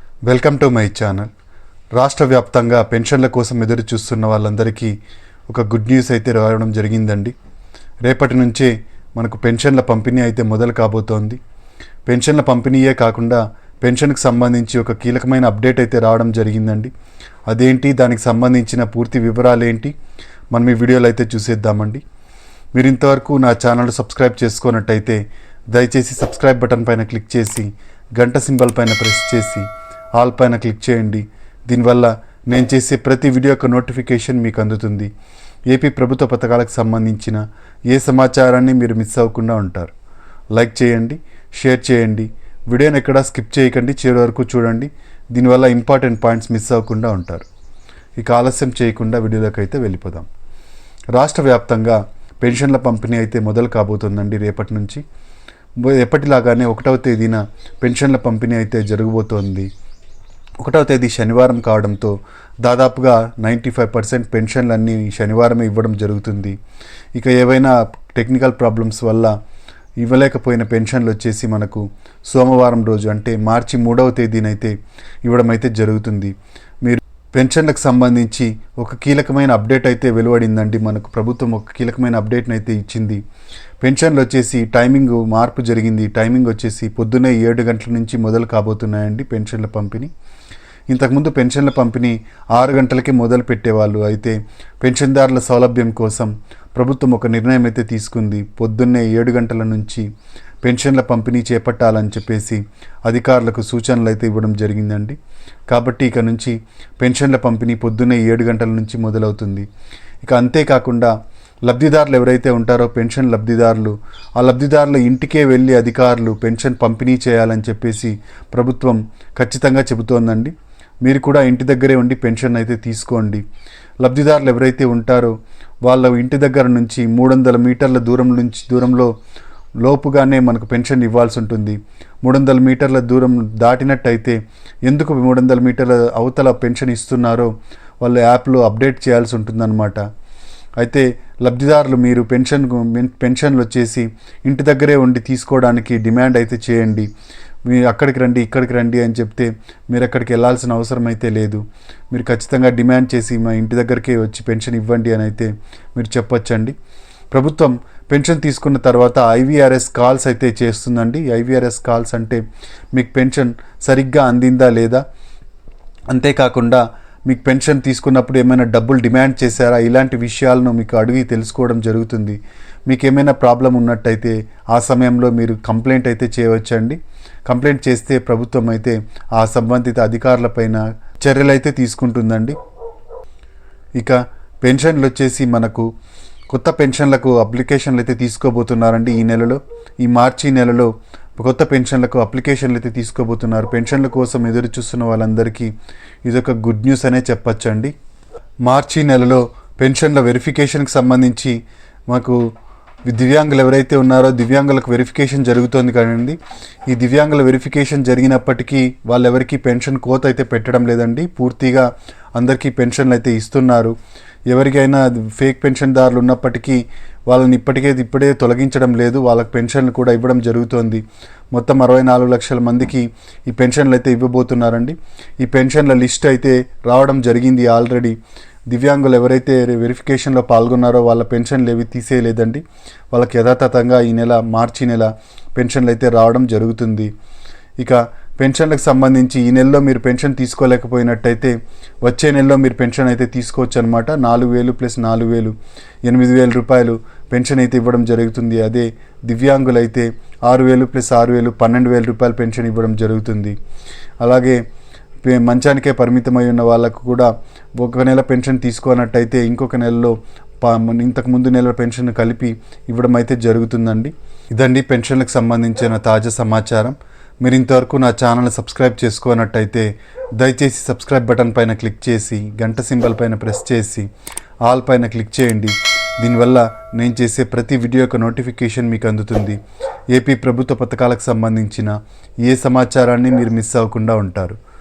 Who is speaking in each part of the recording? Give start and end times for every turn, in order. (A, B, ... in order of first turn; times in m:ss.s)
0:00.3-0:01.3 A
0:02.0-0:04.9 A
0:05.5-0:07.3 A
0:08.0-0:11.4 A
0:12.1-0:16.9 A
0:17.5-0:19.9 A
0:20.5-0:22.0 A
0:22.7-0:25.2 A
0:25.7-0:35.1 A
0:35.7-0:39.9 A
0:40.5-0:47.5 A
0:48.2-0:50.3 A
0:51.1-0:55.0 A
0:55.8-0:59.7 A
1:00.6-1:06.6 A
1:07.2-1:09.3 A
1:10.0-1:14.7 A
1:15.2-1:23.2 A
1:23.8-1:30.1 A
1:30.9-1:40.0 A
1:40.6-1:45.2 A
1:45.7-1:49.6 A
1:50.2-1:51.1 A
1:51.7-2:00.5 A
2:01.0-2:03.4 A
2:04.0-2:05.3 A
2:05.8-2:09.1 A
2:09.8-2:17.5 A
2:18.0-2:20.0 A
2:20.8-2:27.1 A
2:27.7-2:36.7 A
2:37.3-2:42.4 A
2:42.9-2:45.0 A
2:46.1-3:02.6 A
3:04.0-3:05.9 A
3:06.5-3:15.7 A
3:16.2-3:17.9 A
3:18.6-3:22.4 A
3:23.1-3:33.9 A
3:34.5-3:48.2 A
3:48.7-3:57.1 A
3:57.8-4:05.5 A
4:06.0-4:13.5 A
4:14.2-4:14.6 A
4:15.2-4:34.1 A
4:34.7-4:39.6 A
4:40.1-4:44.6 A